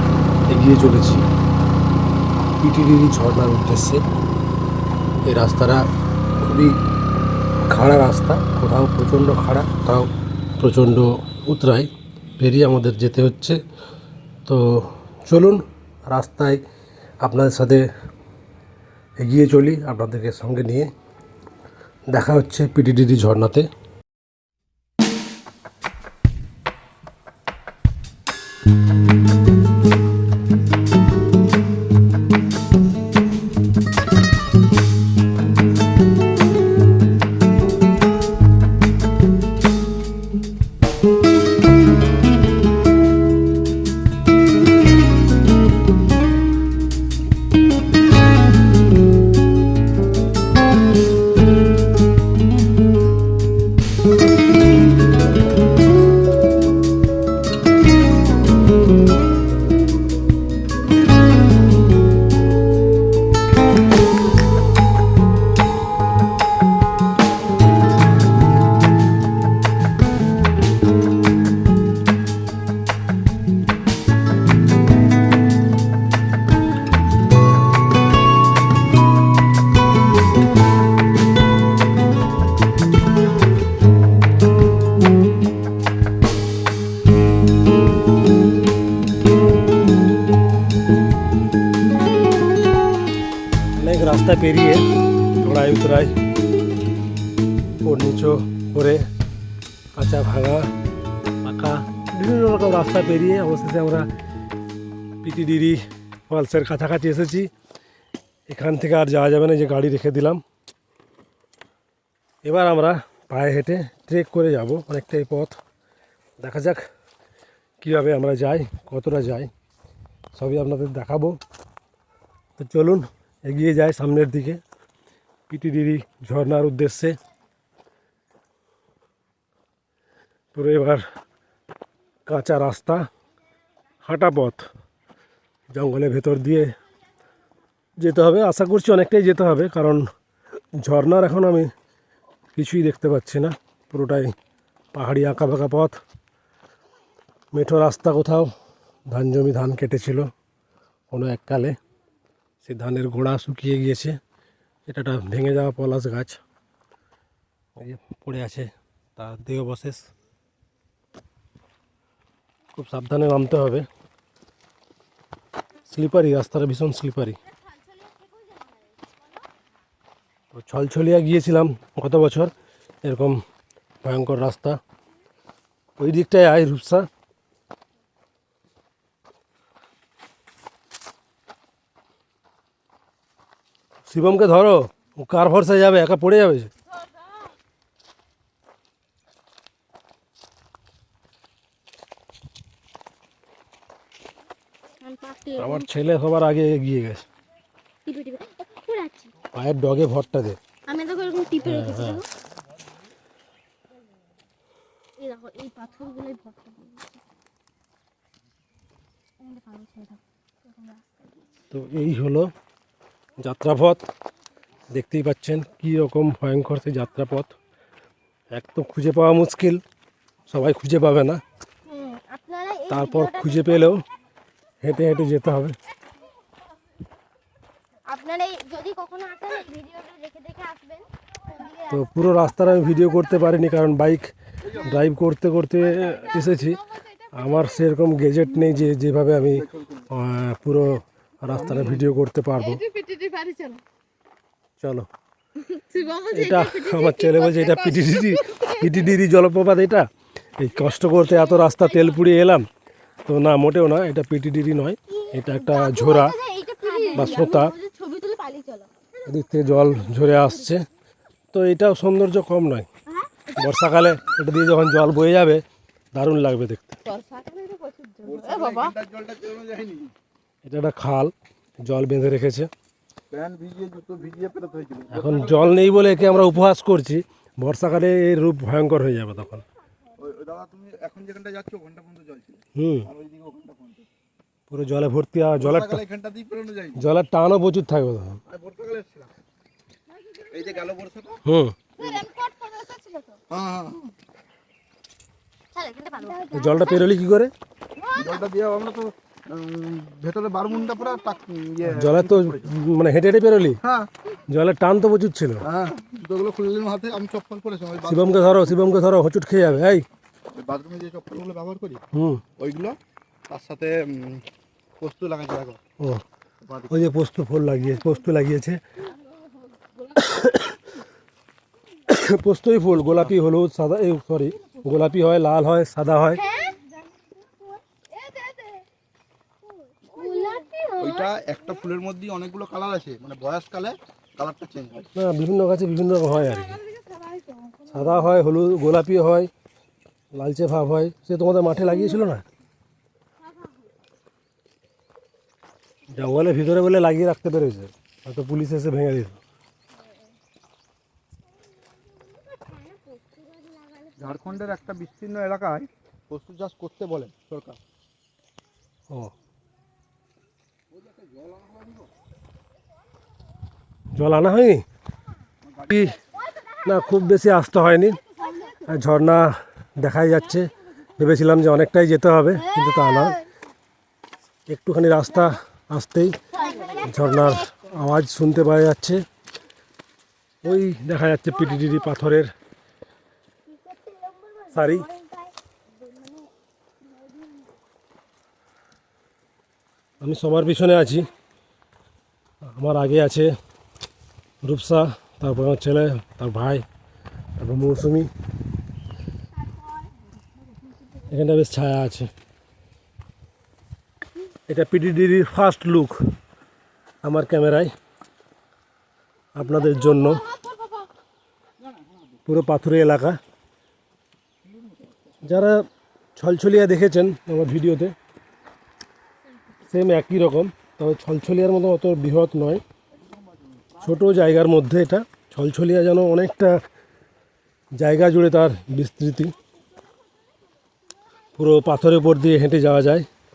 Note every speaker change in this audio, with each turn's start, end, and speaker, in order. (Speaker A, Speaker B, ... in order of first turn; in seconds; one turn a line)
Speaker A: 0.5-1.2
Speaker A: 2.6-4.0
Speaker A: 5.2-5.8
Speaker A: 6.4-6.8
Speaker A: 7.7-13.6
Speaker A: 14.4-16.6
Speaker A: 17.2-17.9
Speaker A: 19.2-20.9
Speaker A: 22.1-23.7
Speaker A: 93.8-94.9
Speaker A: 95.4-96.1
Speaker A: 97.8-99.1
Speaker A: 99.9-100.7
Speaker A: 101.4-104.1
Speaker A: 105.2-107.5
Speaker A: 108.5-110.4
Speaker A: 112.4-115.6
Speaker A: 116.4-116.8
Speaker A: 117.8-119.5
Speaker A: 120.3-121.4
Speaker A: 122.6-124.6
Speaker A: 125.5-127.2
Speaker A: 130.5-131.0
Speaker A: 132.2-133.1
Speaker A: 134.0-134.6
Speaker A: 135.7-136.8
Speaker A: 138.0-140.1
Speaker A: 140.8-141.7
Speaker A: 142.5-144.3
Speaker A: 144.9-146.0
Speaker A: 147.5-148.5
Speaker A: 149.1-150.3
Speaker A: 151.1-151.8
Speaker A: 152.6-154.2
Speaker A: 154.9-156.4
Speaker A: 157.7-160.1
Speaker A: 162.8-163.9
Speaker A: 165.9-167.4
Speaker B: 168.1-169.2
Speaker A: 170.5-172.5
Speaker A: 173.0-173.4
Speaker A: 174.0-174.8
Speaker A: 176.0-177.1
Speaker A: 184.1-186.7
Speaker B: 195.0-195.9
Speaker A: 195.6-197.2
Speaker B: 198.1-199.3
Speaker A: 199.5-200.6
Speaker B: 200.9-202.2
Speaker A: 201.6-202.2
Speaker B: 205.2-207.2
Speaker B: 209.4-211.0
Speaker A: 211.7-212.5
Speaker A: 213.4-214.0
Speaker A: 214.9-217.5
Speaker A: 218.5-219.8
Speaker A: 220.5-221.4
Speaker B: 221.9-224.0
Speaker A: 222.9-224.0
Speaker A: 224.8-225.8
Speaker B: 228.1-233.5
Speaker A: 231.9-236.8
Speaker C: 234.6-234.9
Speaker D: 235.8-237.9
Speaker A: 237.3-242.8
Speaker C: 239.5-240.1
Speaker C: 241.4-242.1
Speaker D: 242.5-243.8
Speaker A: 244.8-245.1
Speaker D: 245.6-249.2
Speaker A: 246.3-252.7
Speaker D: 251.5-252.2
Speaker A: 253.2-256.4
Speaker B: 255.1-258.9
Speaker D: 256.8-257.7
Speaker A: 257.1-257.7
Speaker A: 259.2-260.9
Speaker D: 260.1-260.5
Speaker A: 261.5-262.9
Speaker B: 263.1-263.4
Speaker A: 263.6-267.0
Speaker D: 267.0-268.9
Speaker C: 268.2-270.1
Speaker A: 270.6-272.7
Speaker C: 273.3-276.3
Speaker A: 275.1-279.6
Speaker C: 280.2-284.1
Speaker A: 282.8-283.1
Speaker A: 284.7-286.0
Speaker C: 285.6-287.0
Speaker A: 287.0-288.4
Speaker C: 288.5-289.3
Speaker D: 290.1-290.9
Speaker C: 290.5-291.4
Speaker A: 291.4-291.8
Speaker B: 292.0-293.3
Speaker D: 292.0-292.2
Speaker D: 292.9-293.4
Speaker C: 293.5-294.1
Speaker B: 295.7-297.1
Speaker D: 296.2-296.8
Speaker A: 296.5-297.5
Speaker B: 298.0-298.4
Speaker C: 298.1-302.7
Speaker A: 301.8-303.8
Speaker C: 303.8-304.1
Speaker A: 304.5-305.6
Speaker C: 305.6-308.8
Speaker A: 308.1-310.1
Speaker C: 310.5-312.0
Speaker A: 312.1-312.4
Speaker C: 312.6-314.5
Speaker C: 315.0-315.8
Speaker A: 316.0-316.2
Speaker C: 316.6-317.1
Speaker A: 316.9-318.8
Speaker D: 319.0-320.4
Speaker A: 320.1-320.8
Speaker A: 322.1-326.4
Speaker C: 323.0-323.4
Speaker B: 326.3-326.8
Speaker D: 326.4-328.9
Speaker D: 329.6-330.7
Speaker B: 330.1-331.3
Speaker C: 331.0-335.1
Speaker A: 335.1-336.8
Speaker D: 336.2-338.3
Speaker A: 337.9-339.5
Speaker A: 340.3-342.4
Speaker A: 346.1-349.4
Speaker B: 352.1-354.8
Speaker C: 354.2-357.8
Speaker C: 360.9-362.1
Speaker A: 364.1-364.8
Speaker C: 365.6-366.2
Speaker A: 365.9-366.2
Speaker B: 366.2-367.3
Speaker A: 366.8-368.2
Speaker D: 368.1-368.9
Speaker B: 368.3-368.8
Speaker A: 368.9-373.4
Speaker B: 372.6-373.5
Speaker A: 374.7-376.4
Speaker D: 376.5-377.3
Speaker B: 376.5-377.7
Speaker A: 377.0-379.2
Speaker A: 380.6-382.5
Speaker B: 383.9-385.5
Speaker A: 384.7-385.1
Speaker A: 390.2-391.3
Speaker A: 392.6-393.5
Speaker A: 394.6-396.8
Speaker A: 397.6-398.3
Speaker A: 401.3-402.3
Speaker A: 404.7-406.2
Speaker A: 407.2-407.9
Speaker A: 409.5-410.4
Speaker B: 410.7-411.0
Speaker C: 411.8-412.4
Speaker A: 412.4-413.4
Speaker C: 414.6-415.4
Speaker A: 415.4-418.1
Speaker A: 419.9-422.8
Speaker C: 423.1-424.3
Speaker A: 424.0-426.8
Speaker A: 427.9-429.5
Speaker A: 431.6-433.3